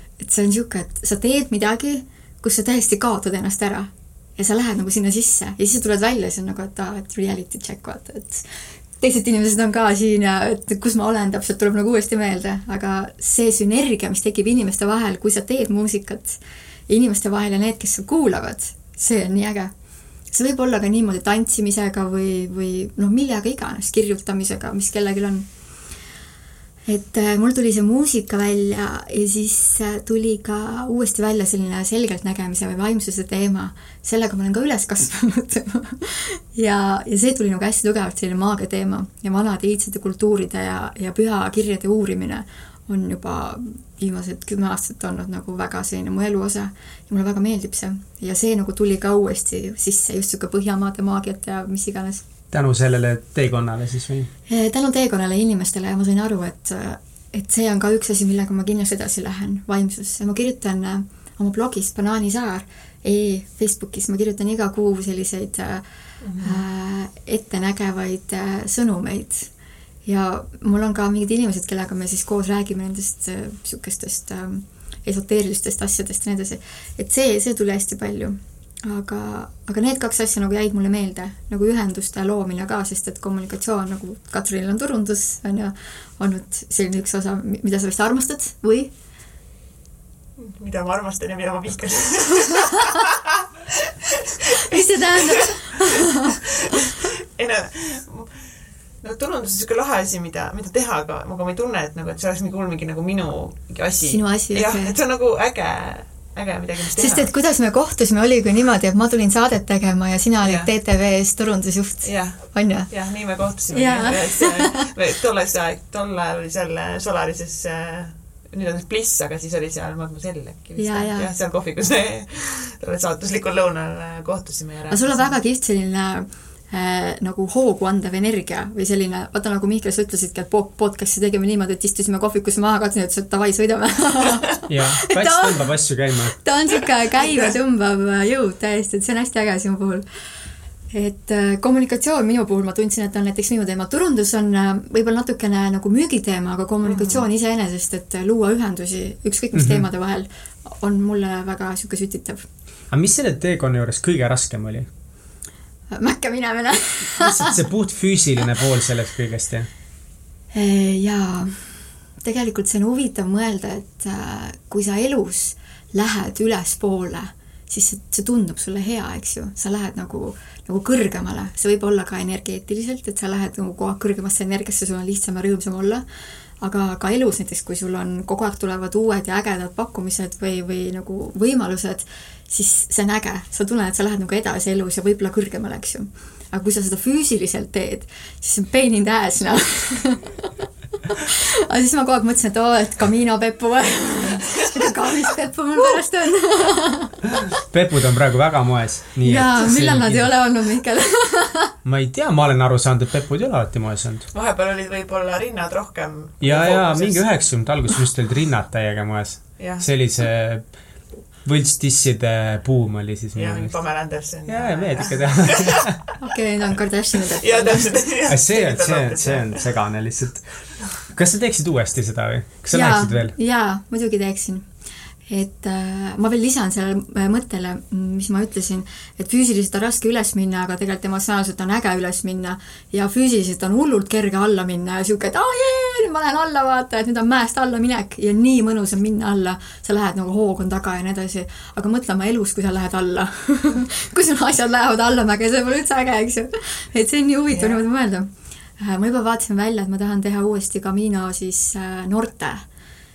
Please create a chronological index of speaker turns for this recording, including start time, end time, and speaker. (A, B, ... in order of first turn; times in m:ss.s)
0:00.2-0:08.4 A
0:09.0-0:19.7 A
0:20.3-0:25.4 A
0:26.9-0:52.2 A
0:52.5-0:54.3 B
0:54.5-1:05.8 A
1:06.2-1:06.6 C
1:06.4-1:09.5 A
1:10.0-1:28.9 A
1:30.4-1:38.5 C
1:34.6-1:36.8 A
1:39.0-1:47.3 C
1:44.0-1:44.9 A
1:46.9-1:52.9 A
1:50.4-1:50.7 C
1:52.0-2:05.4 C
1:53.7-1:54.9 A
2:00.8-2:01.3 A
2:04.9-2:15.7 A
2:14.7-2:16.4 B
2:16.3-2:20.0 A
2:17.2-2:17.5 C
2:20.9-2:32.4 A
2:26.9-2:27.2 C
2:29.5-2:29.9 B
2:32.9-2:34.9 B
2:35.9-2:37.6 A
2:37.2-2:39.7 B
2:40.5-2:41.7 A
2:42.2-2:56.0 A
2:56.6-3:10.5 A
3:11.0-3:17.6 A
3:17.6-3:20.3 B
3:19.2-3:21.7 A
3:21.8-3:24.2 B
3:24.3-3:27.2 C
3:26.4-3:30.7 B
3:29.6-3:29.8 C
3:31.4-3:33.7 B
3:33.4-3:36.1 C
3:34.4-3:36.0 B
3:36.2-3:38.0 A
3:37.2-3:39.6 C
3:38.3-3:40.5 B
3:41.0-3:43.3 B
3:42.7-3:44.6 A
3:45.3-4:12.6 A
4:07.5-4:07.8 C